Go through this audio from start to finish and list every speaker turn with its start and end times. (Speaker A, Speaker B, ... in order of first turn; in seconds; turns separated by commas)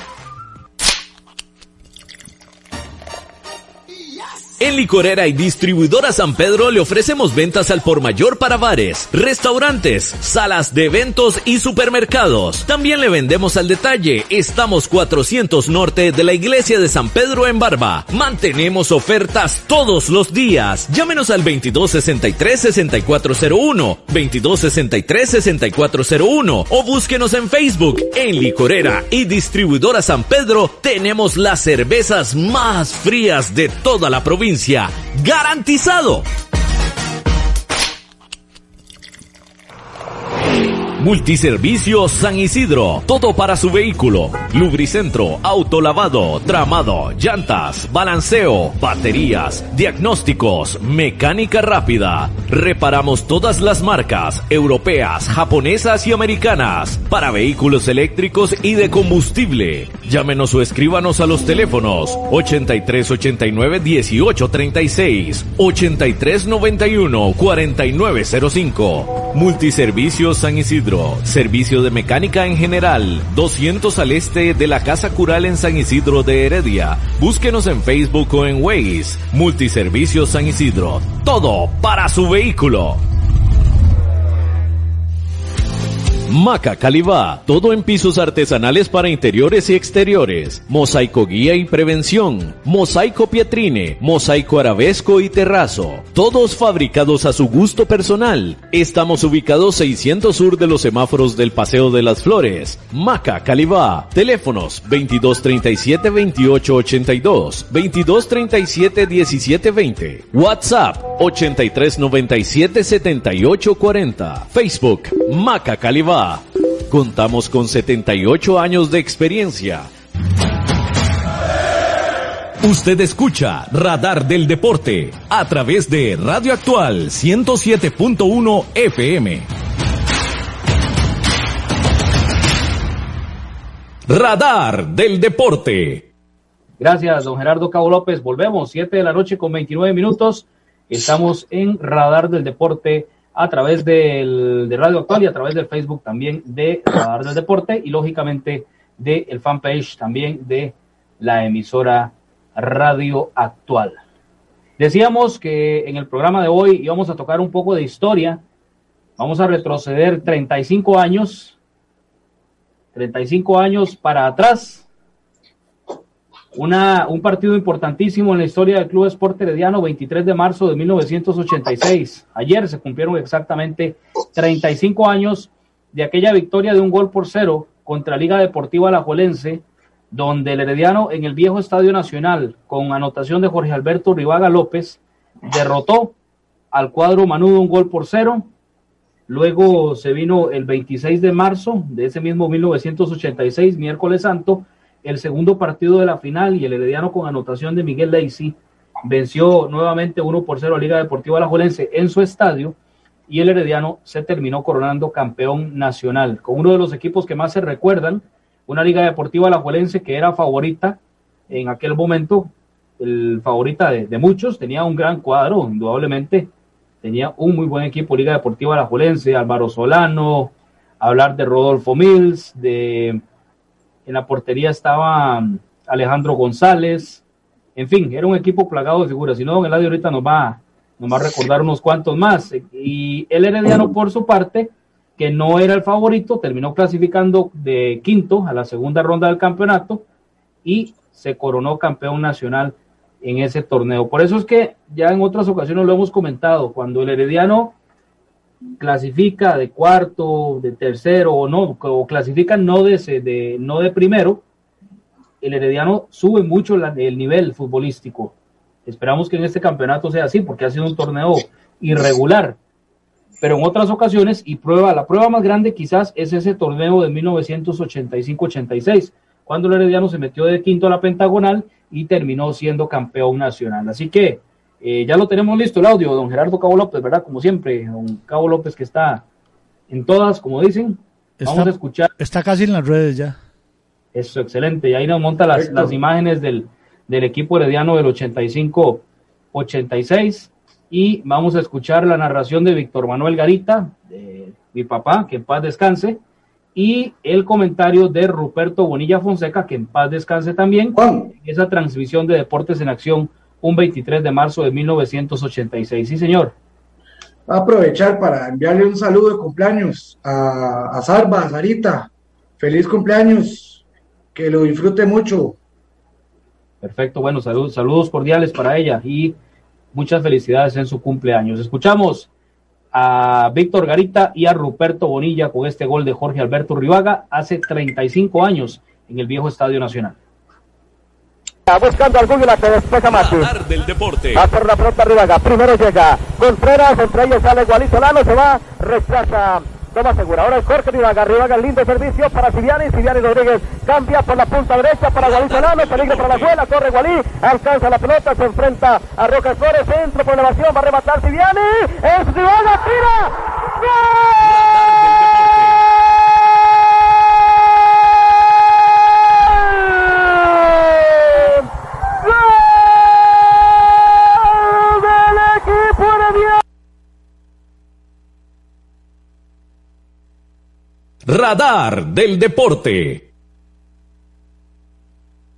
Speaker A: 4.6-36.3, Speaker A: 41.0-83.0, Speaker A: 86.3-119.9, Speaker A: 122.6-129.5, Speaker A: 134.1-136.1, Speaker B: 136.8-154.0, Speaker B: 154.8-158.4, Speaker B: 159.2-161.6, Speaker B: 162.9-164.8, Speaker B: 166.5-186.1, Speaker B: 186.7-188.5, Speaker B: 189.3-202.8, Speaker B: 203.3-211.0, Speaker B: 211.5-216.5, Speaker B: 217.0-223.2, Speaker B: 224.1-227.2, Speaker B: 227.8-240.1, Speaker B: 240.7-247.8, Speaker B: 248.8-254.4, Speaker B: 255.4-258.3, Speaker B: 258.9-262.6, Speaker B: 263.4-279.2, Speaker B: 279.9-282.1, Speaker C: 281.4-283.4, Speaker B: 284.1-289.0, Speaker D: 285.5-286.0, Speaker B: 289.5-296.2, Speaker B: 296.8-306.5, Speaker D: 300.9-301.3, Speaker D: 307.5-313.8, Speaker D: 314.4-315.6, Speaker B: 316.8-319.4, Speaker B: 319.9-322.3, Speaker B: 322.9-330.2, Speaker E: 331.7-333.5, Speaker A: 333.1-334.5, Speaker E: 334.4-354.3, Speaker A: 345.2-346.6, Speaker A: 354.4-355.8, Speaker E: 359.5-361.7, Speaker E: 362.2-366.6, Speaker A: 371.3-373.3